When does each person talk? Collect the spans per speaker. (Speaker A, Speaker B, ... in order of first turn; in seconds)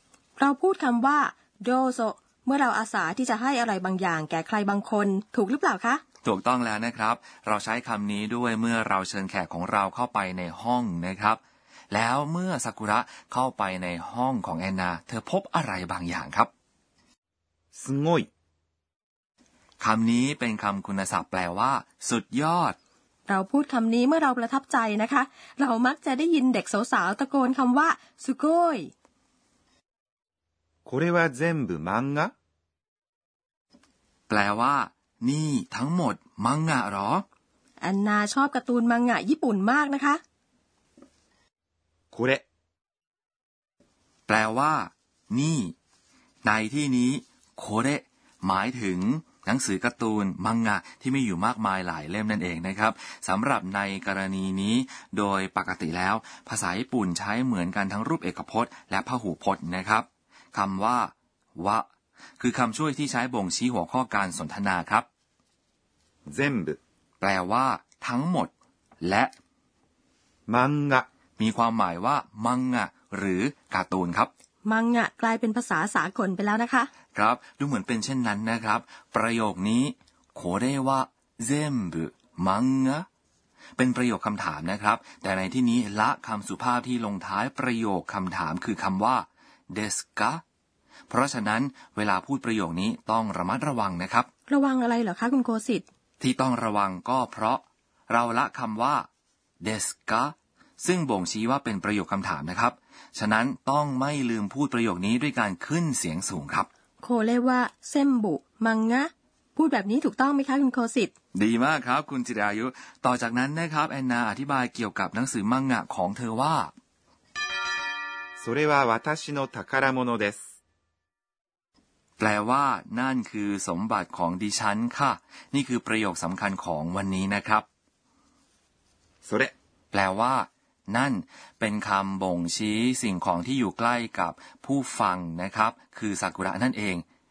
Speaker A: 0.4-6.0, 23.3-28.9, 37.8-40.2, 74.7-76.9, 94.5-95.8, 107.0-111.1
Speaker B: 6.2-11.4, 11.9-16.5, 19.8-22.8, 34.3-37.2, 44.3-45.7, 46.4-61.9, 62.4-65.1, 67.2-69.3, 71.4-74.3, 77.1-83.1, 83.8-90.4, 91.1-94.3, 96.2-99.1, 99.6-106.7, 111.3-116.7, 122.2-127.7, 129.9-137.0
Speaker C: 17.7-18.3, 30.9-32.3, 42.1-42.4, 66.3-66.8, 70.5-71.1, 118.4-120.4, 129.2-129.5